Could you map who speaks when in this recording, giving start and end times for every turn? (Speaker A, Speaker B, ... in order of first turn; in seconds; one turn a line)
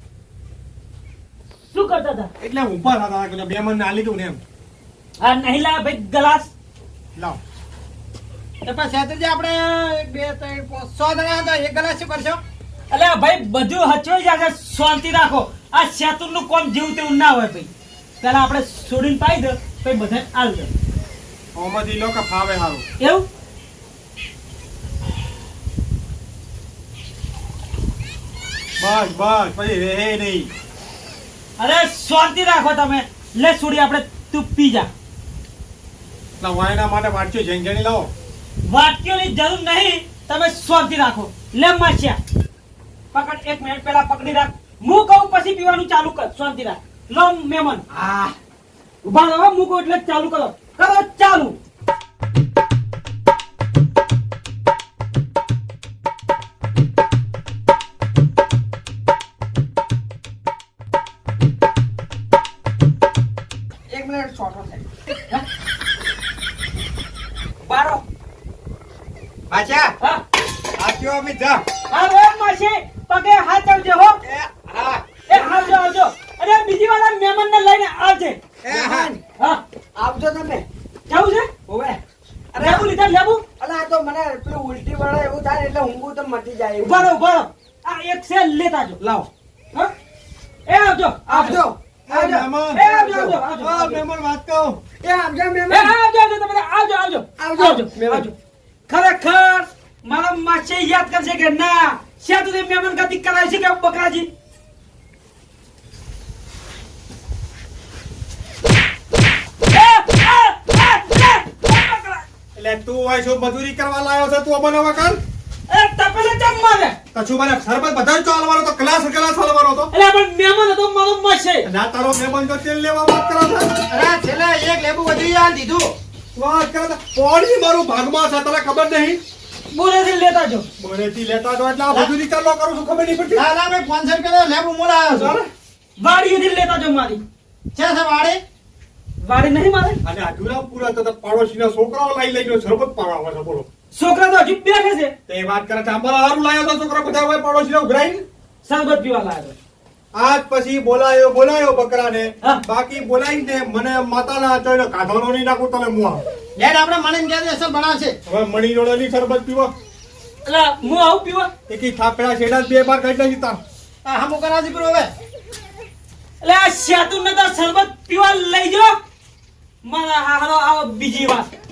Speaker A: 1.7-2.3
Speaker B: 2.4-4.4
Speaker A: 5.2-6.5
Speaker C: 8.6-12.4
Speaker A: 12.9-20.7
Speaker B: 21.6-22.8
Speaker A: 23.0-23.3
Speaker B: 28.8-30.5
Speaker A: 31.6-34.9
Speaker B: 36.4-38.1
Speaker A: 38.6-42.2
Speaker A: 43.1-47.8
Speaker A: 49.0-51.6
Speaker D: 63.9-64.8
Speaker D: 67.6-68.0
Speaker E: 69.5-69.9
Speaker E: 70.8-71.6
Speaker A: 71.9-74.2
Speaker E: 74.2-75.0
Speaker A: 75.3-78.4
Speaker D: 75.3-75.7
Speaker E: 78.6-79.2
Speaker D: 78.7-79.2
Speaker D: 79.9-80.7
Speaker A: 81.1-81.5
Speaker D: 81.7-82.0
Speaker D: 82.5-82.9
Speaker A: 82.6-83.4
Speaker D: 83.6-87.1
Speaker A: 86.8-89.0
Speaker D: 89.0-89.3
Speaker A: 90.7-91.6
Speaker D: 91.3-93.4
Speaker B: 92.1-92.9
Speaker A: 92.7-94.0
Speaker B: 93.6-94.8
Speaker D: 95.0-95.9
Speaker A: 95.7-98.3
Speaker D: 97.4-98.2
Speaker A: 98.9-104.3
Speaker A: 109.7-112.2
Speaker B: 112.6-115.2
Speaker A: 115.7-117.0
Speaker B: 117.1-119.9
Speaker A: 119.9-121.7
Speaker B: 121.6-123.8
Speaker C: 123.9-125.9
Speaker B: 126.3-129.2
Speaker A: 129.7-130.7
Speaker B: 130.8-133.4
Speaker C: 133.3-135.5
Speaker A: 136.0-137.2
Speaker C: 137.7-138.4
Speaker A: 139.2-140.0
Speaker B: 140.0-143.7
Speaker A: 143.9-145.1
Speaker B: 145.3-148.2
Speaker A: 148.6-149.6
Speaker B: 150.1-156.2
Speaker C: 156.6-158.2
Speaker B: 158.2-159.7
Speaker A: 160.4-161.5
Speaker B: 161.7-163.6
Speaker C: 164.1-165.1
Speaker A: 166.4-169.0
Speaker A: 169.8-171.5